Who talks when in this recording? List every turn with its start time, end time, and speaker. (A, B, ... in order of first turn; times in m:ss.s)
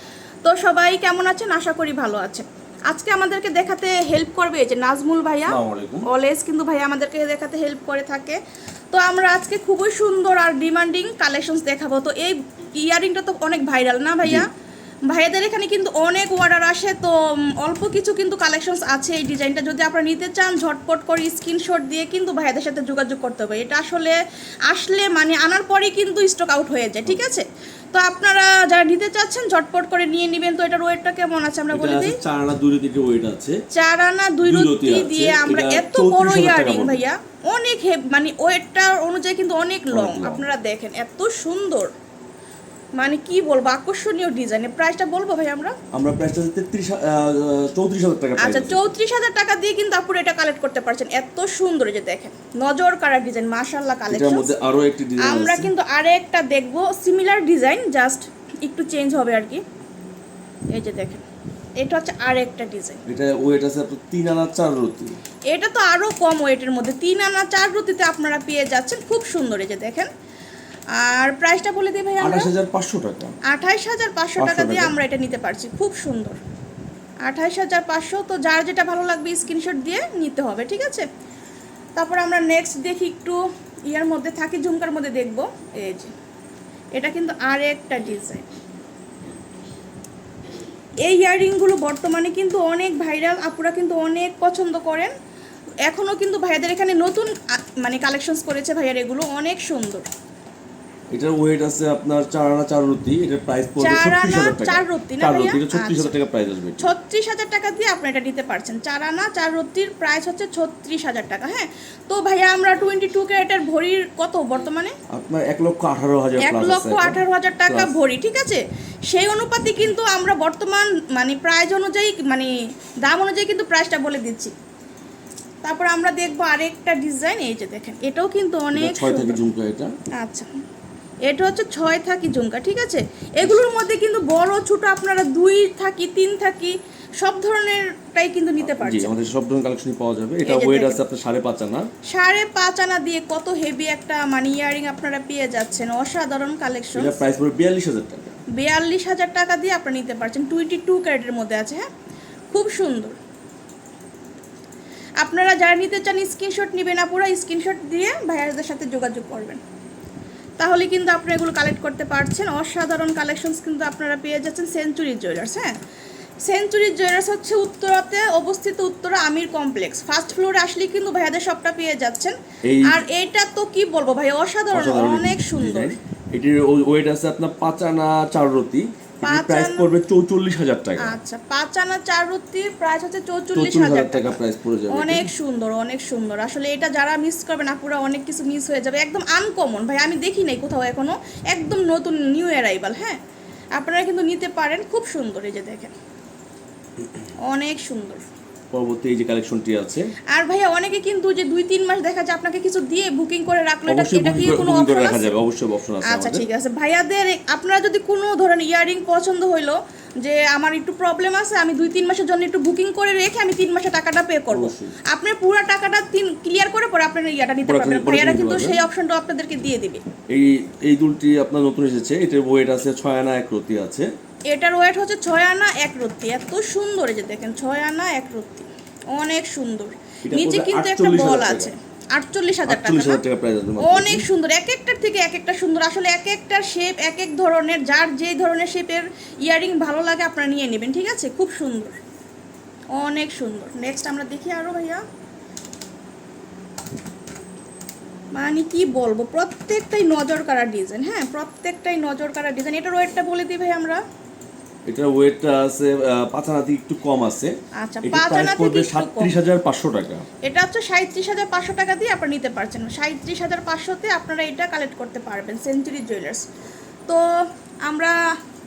0:00.4-0:08.4 A
0:05.5-0:06.1 B
0:08.9-0:14.5 A
0:15.1-0:32.2 A
0:31.7-0:33.6 B
0:33.7-0:41.9 A
0:34.4-0:37.0 B
0:39.9-0:40.5 B
0:43.0-0:45.8 A
0:45.9-0:48.9 B
0:48.4-0:54.5 A
0:54.1-0:55.7 B
0:55.2-0:59.6 A
1:00.7-1:01.2 A
1:01.8-1:03.0 A
1:03.1-1:05.2 B
1:05.5-1:10.1 A
1:10.9-1:12.5 A
1:12.2-1:13.3 B
1:13.4-1:16.4 A
1:14.4-1:14.9 B
1:17.2-1:21.1 A
1:22.0-1:26.1 A
1:26.9-1:28.5 A
1:31.0-1:35.1 A
1:35.9-1:40.1 A
1:41.1-1:46.9 B
1:43.8-1:46.1 A
1:46.8-1:55.0 A
1:55.1-1:57.9 B
1:56.4-2:02.5 A
2:03.0-2:04.5 A
2:05.6-2:09.4 A
2:08.7-2:09.9 B
2:10.1-2:10.5 A
2:11.2-2:19.1 A
2:18.6-2:21.9 B
2:20.4-2:21.0 A
2:22.1-2:27.2 A
2:26.9-2:28.4 B
2:28.5-2:31.9 A
2:32.5-2:33.2 A
2:35.2-2:39.6 A
2:40.6-2:45.7 A
2:46.4-2:56.0 A
2:52.6-2:53.0 B
2:54.7-3:01.2 B
2:59.2-2:59.9 A
3:01.0-3:04.4 A
3:03.5-3:05.3 B
3:04.9-3:13.2 A
3:13.7-3:15.9 A
3:17.4-3:18.2 A
3:18.7-3:20.1 B
3:20.3-3:25.3 A
3:23.9-3:26.4 B
3:26.0-3:40.0 A
3:34.5-3:34.9 B
3:37.6-3:38.8 B
3:40.3-3:44.1 B
3:44.5-3:53.2 A
3:50.2-3:51.7 B
3:52.7-3:54.3 B
3:53.8-4:02.0 A
4:02.9-4:05.0 A
4:08.4-4:14.0 A
4:14.9-4:20.2 B
4:17.8-4:19.3 A
4:20.4-4:26.4 A
4:27.1-4:28.2 A